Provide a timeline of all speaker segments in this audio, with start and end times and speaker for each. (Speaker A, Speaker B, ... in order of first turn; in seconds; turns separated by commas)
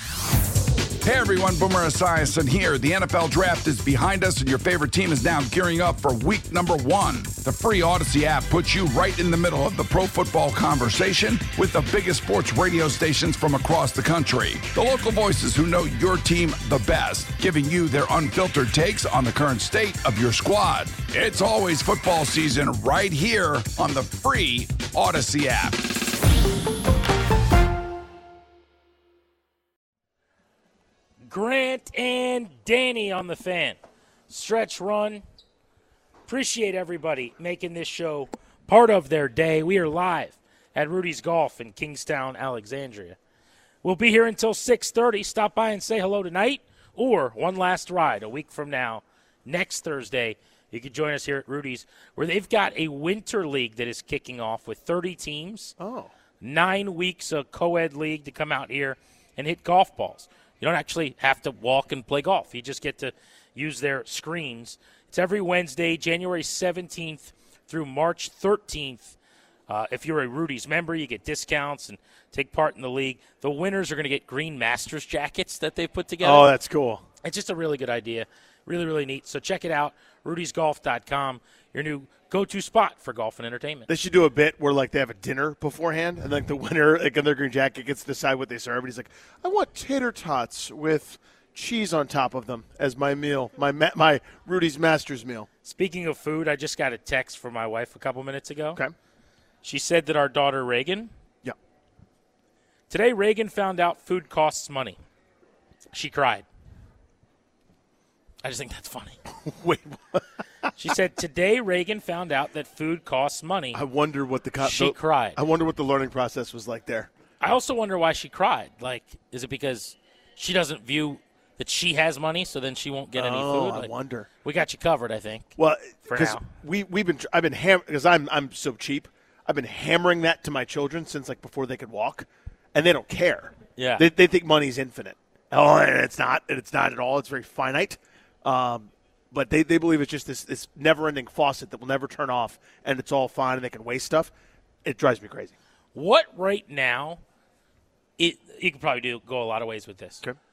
Speaker A: 1.0-26.0, Speaker B: 31.2-33.8, Speaker B: 34.3-35.2, Speaker B: 36.3-43.2, Speaker B: 43.8-55.7, Speaker C: 55.8-56.1, Speaker B: 56.4-69.2, Speaker B: 69.7-76.5, Speaker C: 76.2-77.0, Speaker B: 77.2-83.9, Speaker C: 83.9-95.5, Speaker B: 95.6-98.8, Speaker B: 99.6-101.1, Speaker B: 102.9-105.0, Speaker B: 105.9-106.5, Speaker B: 108.4-109.2, Speaker C: 109.4-110.7, Speaker B: 110.8-113.8, Speaker C: 113.7-117.1, Speaker B: 114.6-115.4, Speaker B: 117.4-123.9, Speaker C: 123.2-124.3, Speaker B: 124.4-125.5, Speaker C: 125.6-144.3, Speaker B: 126.1-126.4, Speaker B: 133.8-134.1, Speaker C: 144.8-145.5, Speaker B: 145.9-147.2, Speaker B: 148.2-150.2